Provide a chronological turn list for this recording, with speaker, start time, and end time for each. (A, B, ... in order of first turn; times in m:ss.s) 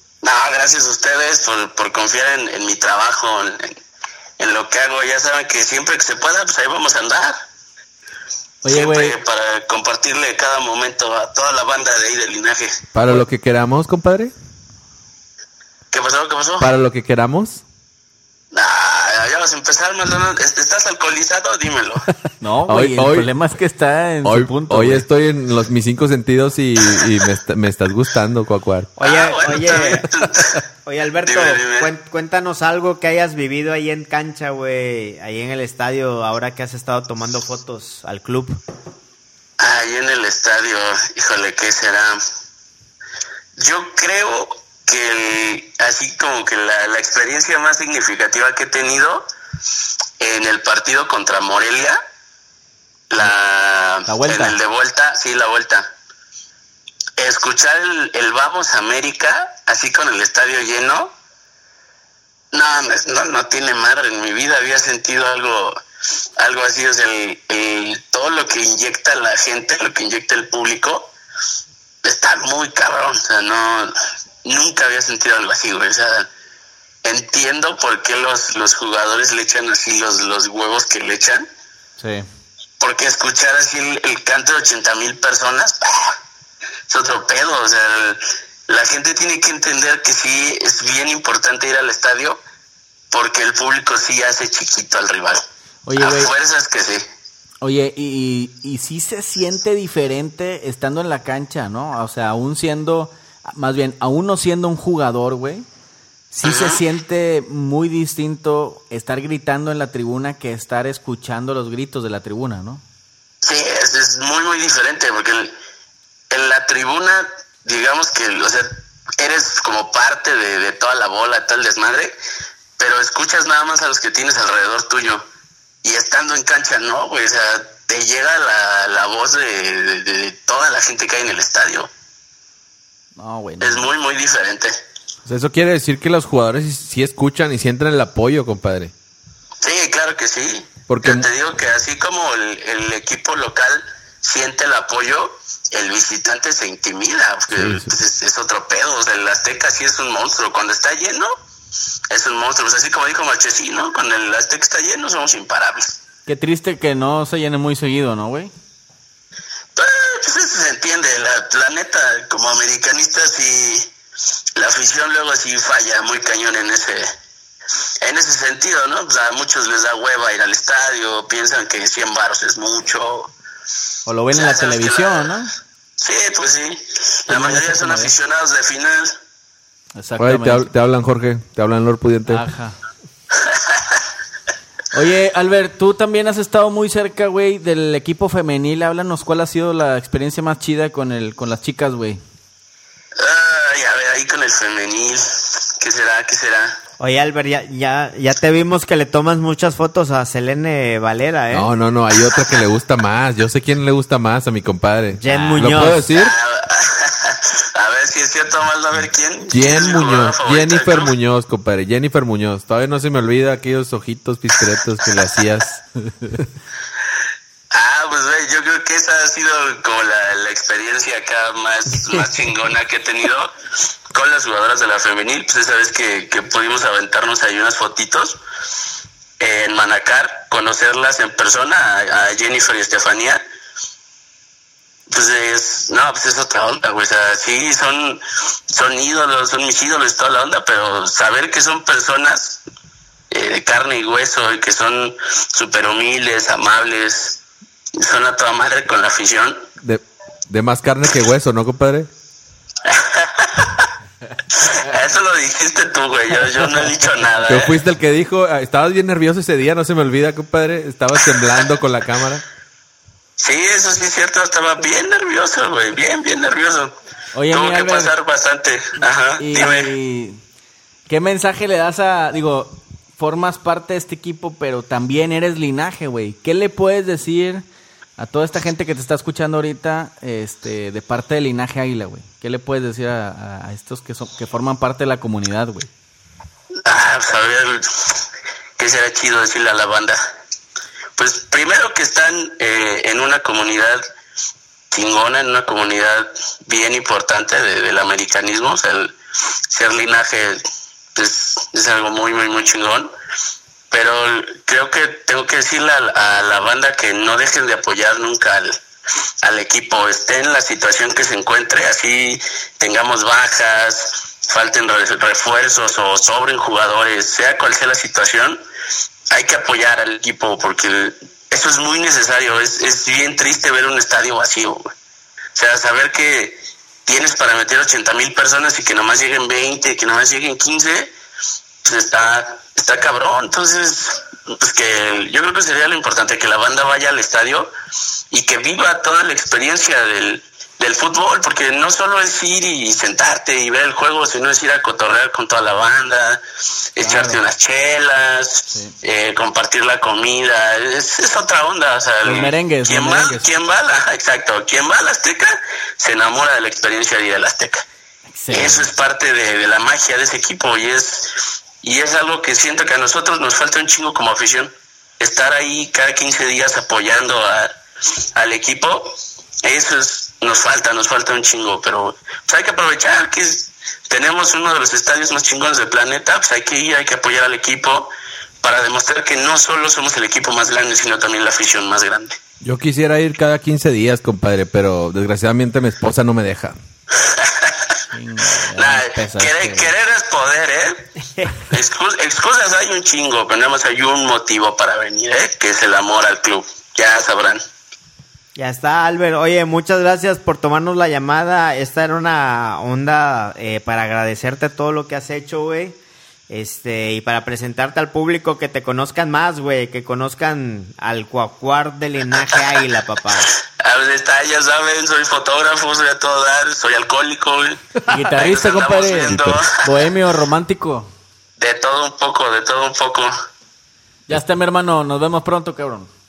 0:00.2-0:03.8 A
0:04.4-0:07.4 A
0:08.6-0:09.2 B
0:08.7-0:12.8 A
0:12.9-0:14.3 C
0:15.9-0:16.7 A
0:16.6-0:17.6 C
0:18.5-0:22.1 A
0:22.4-0:25.1 B
0:22.7-0:23.3 C
0:24.2-0:28.9 C
0:29.0-0:30.1 D
0:29.0-0:30.6 A
0:30.2-0:30.6 C
0:30.8-0:38.6 D
0:31.2-0:31.9 A
0:39.6-0:42.2 A
0:43.6-0:49.3 A
0:50.2-0:52.0 A
0:53.1-0:55.9 A
0:54.1-0:54.6 B
0:57.2-1:01.1 A
1:02.5-1:05.8 A
1:06.4-1:11.1 A
1:12.0-1:13.9 A
1:14.4-1:16.3 A
1:17.0-1:21.5 A
1:22.0-1:22.3 B
1:22.8-1:26.2 A
1:26.9-1:32.4 A
1:33.1-1:35.4 A
1:35.9-1:36.3 B
1:36.0-1:37.0 A
1:37.6-1:45.7 B
1:46.3-1:52.8 B
1:46.4-1:46.8 A
1:53.4-1:55.6 A
1:56.3-2:02.2 A
2:02.8-2:05.2 A
2:05.8-2:11.9 A
2:13.2-2:13.9 B
2:13.6-2:14.7 A
2:15.2-2:18.9 C
2:19.6-2:31.3 A
2:20.9-2:21.3 C
2:27.5-2:27.9 C
2:32.1-2:36.0 A
2:36.3-2:38.5 B
2:39.8-2:43.9 A
2:44.6-2:47.1 A
2:48.0-2:53.3 A
2:54.1-2:55.5 B
2:54.3-2:55.3 A
2:56.0-2:59.2 A
2:57.3-2:58.1 B
3:00.0-3:00.7 B
3:00.2-3:02.5 C
3:02.3-3:02.8 B
3:03.4-3:04.0 A
3:04.9-3:12.2 B
3:13.2-3:16.8 A
3:17.0-3:21.7 D
3:21.5-3:26.4 C
3:25.2-3:26.1 D
3:26.0-3:31.1 A
3:29.5-3:35.8 C
3:37.7-3:43.5 A
3:44.1-3:48.4 A
3:49.4-3:53.4 A
3:55.1-4:02.6 A
4:03.3-4:07.4 A
4:08.0-4:09.6 A
4:09.8-4:12.1 C
4:12.8-4:13.9 A
4:14.5-4:17.8 A
4:17.5-4:22.4 C
4:23.4-4:26.9 A
4:27.3-4:28.1 B
4:27.5-4:29.9 A
4:29.4-4:30.4 B
4:31.1-4:37.6 B
4:38.2-4:45.9 B
4:46.8-4:48.2 A
4:48.8-4:50.2 A
4:51.2-4:54.0 A
4:54.9-4:59.2 A
4:59.7-5:00.6 A
5:01.2-5:03.1 A
5:03.9-5:08.8 A
5:09.4-5:18.6 A
5:19.3-5:24.9 A
5:25.6-5:31.1 A
5:31.8-5:37.7 A
5:38.3-5:46.4 A
5:47.0-5:57.8 A
5:47.0-5:47.4 B
5:52.2-5:53.5 B
5:58.3-5:58.9 B
5:58.5-6:07.7 A
6:08.4-6:18.1 A
6:18.6-6:22.4 A
6:22.6-6:26.8 C
6:27.2-6:28.0 A
6:28.1-6:29.9 B
6:28.8-6:31.1 A
6:31.7-6:37.6 A
6:38.6-6:46.0 D
6:46.5-6:53.5 D
6:53.8-6:59.8 A
6:58.1-7:01.1 B
6:59.3-6:59.7 C
7:01.6-7:03.3 A
7:04.3-7:06.1 B